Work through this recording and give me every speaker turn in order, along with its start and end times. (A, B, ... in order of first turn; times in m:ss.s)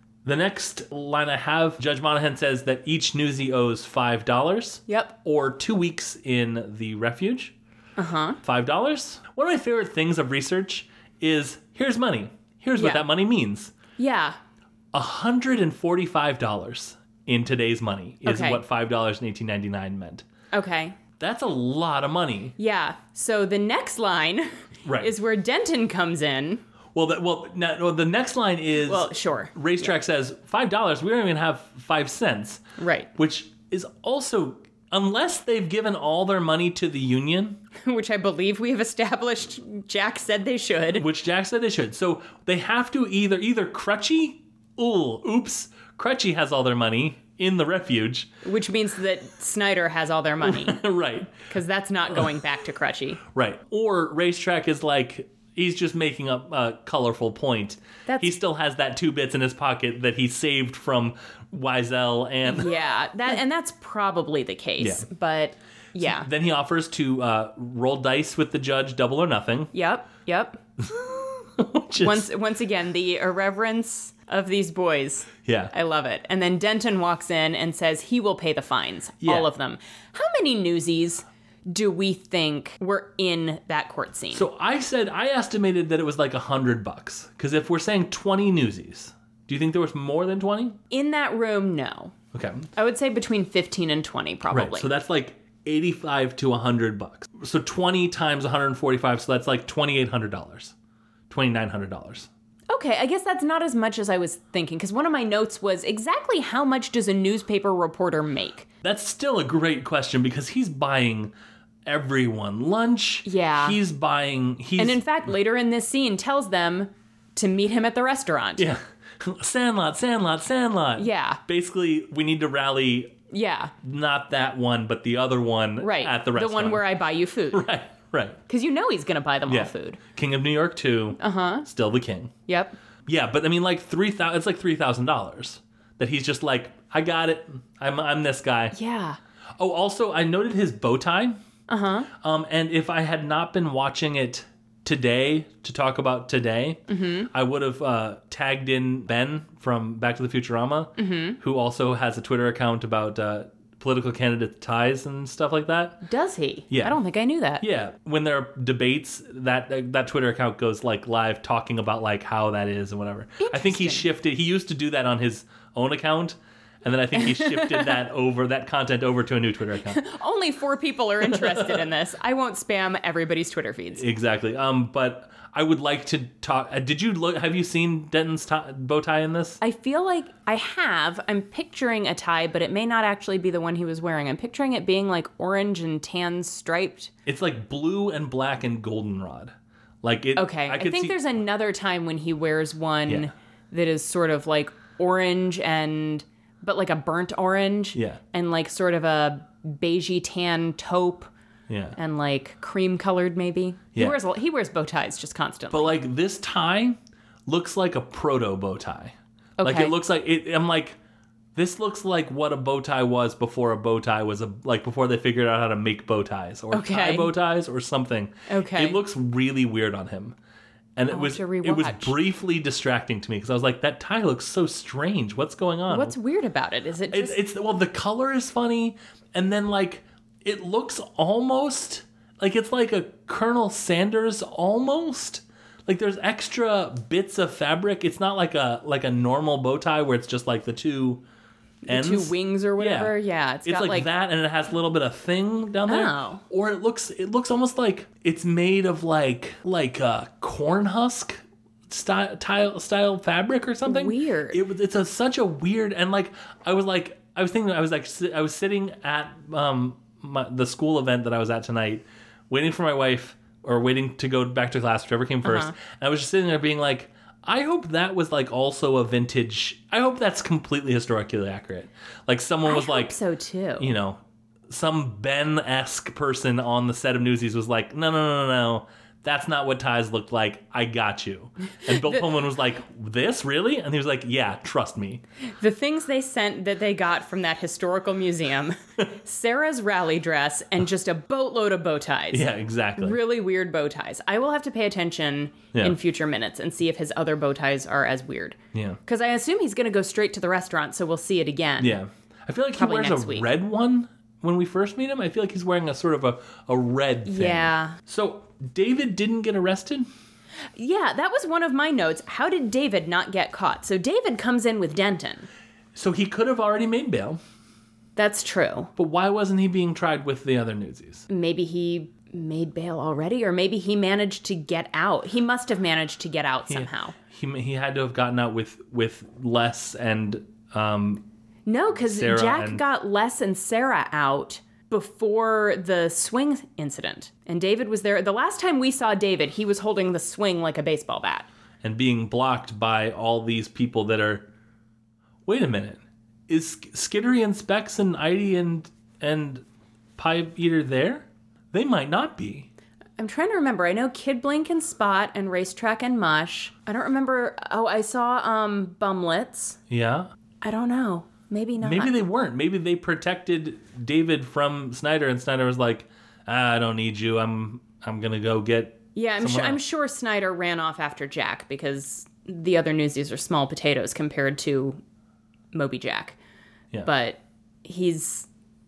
0:00.2-0:07.6 A
0:04.9-0:05.2 B
0:08.0-0:08.4 B
0:08.4-0:13.7 A
0:12.8-0:13.1 B
0:14.0-0:14.4 B
0:14.9-0:20.2 A
0:18.2-0:18.6 B
0:20.5-0:21.0 B
0:21.2-0:22.6 A
0:22.6-0:26.6 B
0:24.8-0:25.1 A
0:27.0-0:32.6 A
0:28.8-0:29.9 B
0:32.8-0:33.1 B
0:33.2-0:37.6 A
0:37.9-0:41.1 B
0:41.0-0:48.3 A
0:48.4-0:50.8 B
0:50.4-0:51.4 A
0:51.4-0:53.2 B
0:53.3-1:02.7 A
0:58.1-0:58.3 B
1:02.5-1:06.3 B
1:04.8-1:05.1 A
1:06.0-1:09.7 A
1:09.7-1:10.6 B
1:10.8-1:12.3 A
1:12.0-1:24.5 B
1:15.5-1:15.7 A
1:19.2-1:19.5 A
1:24.3-1:30.8 A
1:30.9-1:32.1 B
1:32.3-1:32.7 A
1:32.8-1:34.9 B
1:34.5-1:40.7 A
1:41.3-1:42.3 A
1:42.7-1:48.7 B
1:48.8-1:51.3 A
1:51.9-1:55.0 A
1:53.2-1:53.8 B
1:54.8-1:58.7 B
1:58.6-2:03.2 A
2:01.0-2:01.4 B
2:03.3-2:03.7 B
2:03.8-2:06.9 A
2:05.8-2:07.7 B
2:07.5-2:08.4 A
2:08.5-2:10.0 B
2:09.5-2:12.3 A
2:11.2-2:11.7 B
2:12.5-2:12.8 B
2:13.1-2:18.8 A
2:18.7-2:19.2 B
2:19.6-2:21.4 A
2:21.7-2:22.1 B
2:22.2-2:26.8 A
2:26.9-2:27.3 B
2:27.3-2:36.0 A
2:31.0-2:31.4 B
2:36.0-2:37.6 B
2:36.7-2:37.0 A
2:37.6-2:50.0 A
2:43.4-2:44.1 B
2:47.2-2:48.0 B
2:49.8-2:54.0 B
2:51.2-2:51.9 A
2:54.0-2:59.6 A
2:59.6-3:07.1 B
3:07.3-3:11.2 A
3:10.4-3:21.3 B
3:18.0-3:18.2 A
3:21.7-3:22.0 A
3:22.0-3:26.0 B
3:25.7-3:31.0 A
3:29.6-3:30.0 B
3:31.6-3:40.4 A
3:36.7-3:37.4 B
3:38.5-3:39.0 B
3:41.0-3:46.2 A
3:41.1-3:42.2 B
3:45.9-3:47.4 B
3:47.1-4:01.2 A
4:01.8-4:04.1 B
4:01.9-4:03.1 A
4:03.7-4:33.2 A
4:05.9-4:06.4 B
4:13.9-4:14.6 B
4:25.4-4:25.7 B
4:32.7-4:33.9 B
4:33.8-4:45.2 A
4:45.6-5:02.0 B
4:52.3-4:53.2 A
4:58.7-4:59.0 A
5:01.8-5:10.1 A
5:02.8-5:03.5 B
5:07.3-5:08.0 B
5:10.8-5:15.5 B
5:16.0-5:17.4 A
5:18.2-5:18.9 B
5:19.0-5:21.3 A
5:21.3-5:27.2 B
5:26.7-5:31.2 A
5:31.7-5:41.5 B
5:32.0-5:32.8 A
5:41.8-5:44.5 A
5:45.5-5:49.6 A
5:50.2-5:52.7 A
5:53.2-5:59.8 B
5:59.9-6:00.3 A
6:00.6-6:02.2 B
6:01.8-6:09.8 A
6:09.2-6:15.0 B
6:15.7-6:16.4 B
6:17.0-6:18.5 B